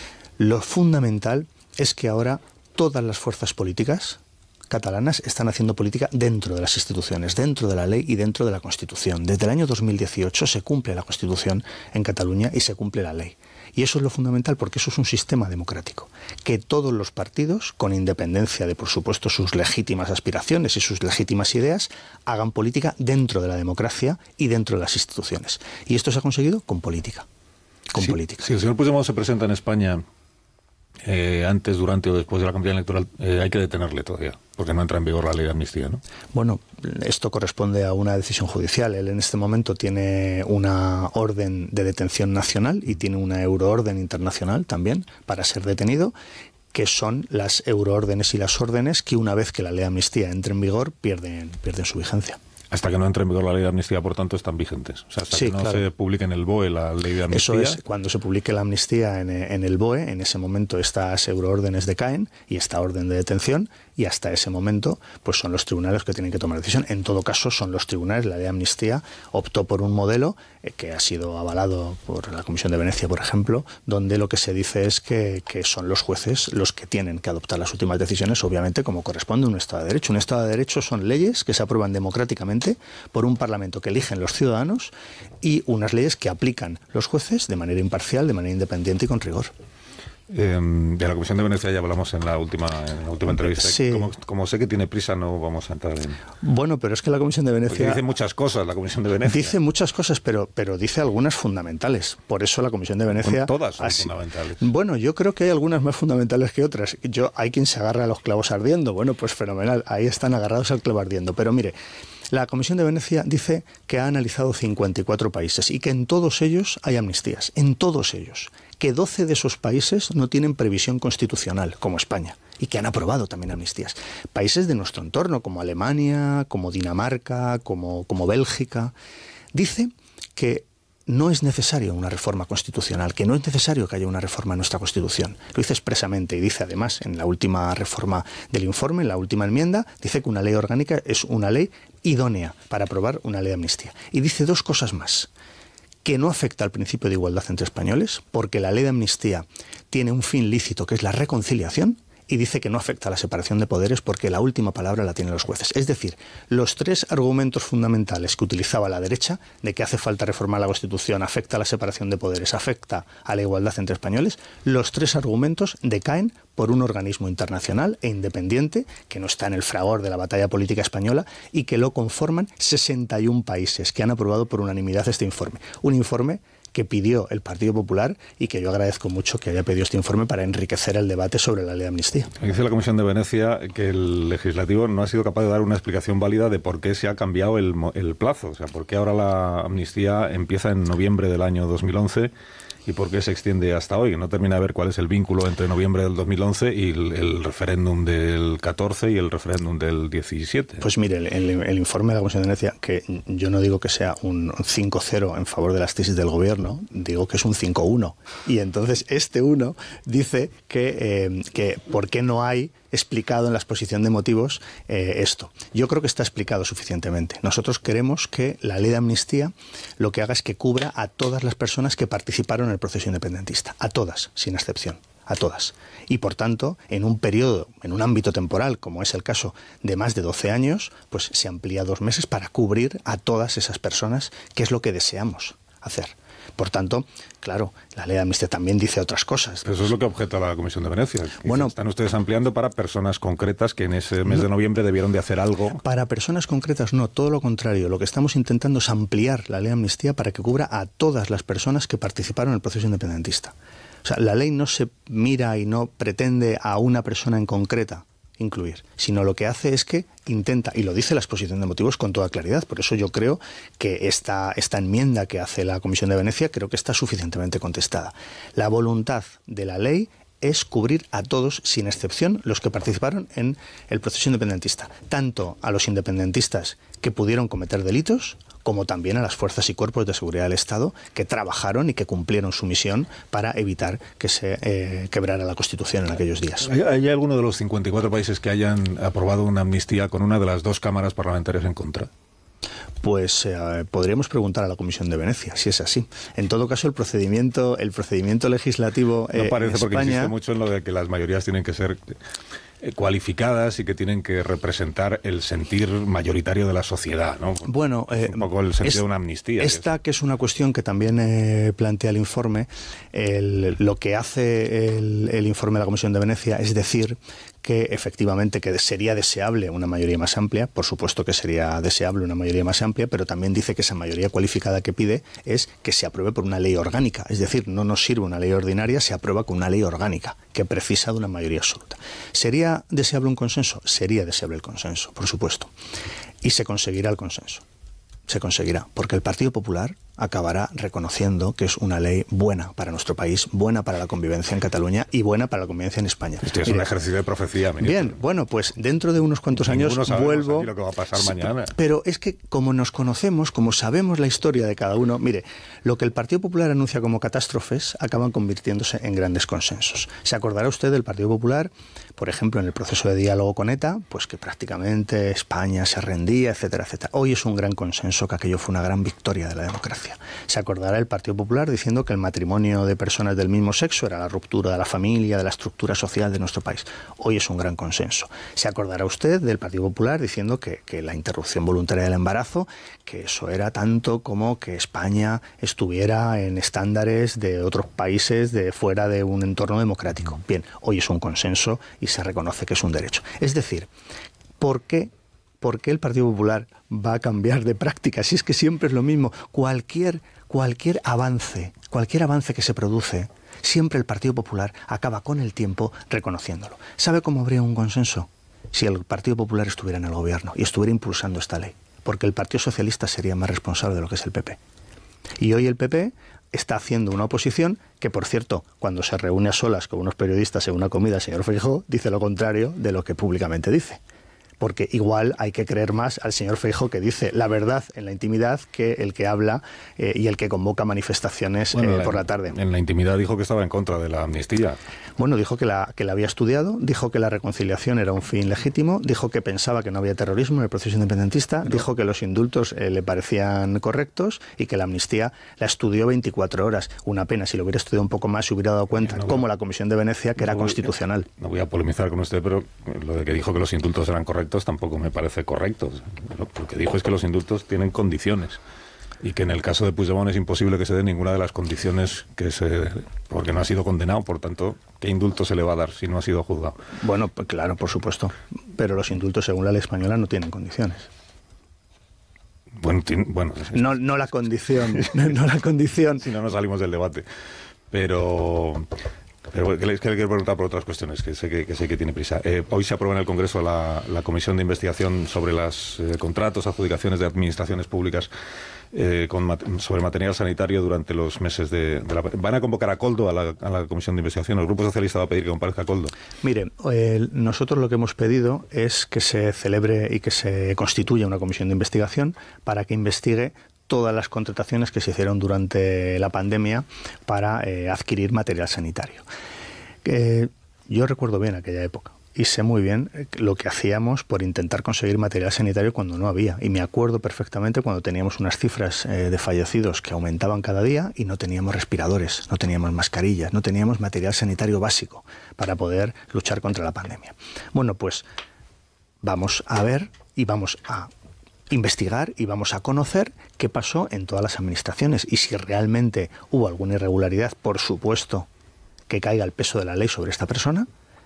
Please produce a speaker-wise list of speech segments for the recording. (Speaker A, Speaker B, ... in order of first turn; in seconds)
Speaker A: 0.4-27.2, 27.9-28.5, 36.3-46.1, 46.7-52.4, 55.3-55.9, 57.3-89.5, 93.3-94.1, 96.4-98.0, 99.2-111.8, 112.3-128.9, 129.5-145.3, 146.0-182.3, 200.8-239.9, 241.4-241.7, 245.8-286.7, 293.0-300.3, 307.6-309.0, 309.6-335.7, 336.4-337.6, 338.3-346.9, 347.8-393.9, 394.6-414.6, 415.4-424.0, 424.6-432.6, 435.2-451.3, 467.0-471.1, 473.7-476.2, 496.4-509.2, 510.0-528.2, 529.2-531.1, 531.7-538.5, 539.1-540.9
Speaker B: 27.9-30.0, 31.0-36.0, 52.7-57.8, 90.3-96.2, 97.7-99.5, 103.1-104.6, 182.4-192.3, 192.9-200.8, 239.6-245.8, 286.6-292.1, 299.3-302.2, 302.8-309.9, 346.4-348.2, 349.5-351.7, 431.7-434.8, 449.0-449.5, 450.4-458.6, 459.2-466.8, 472.7-474.0, 476.2-477.2, 477.9-478.9, 479.5-488.3, 488.9-496.1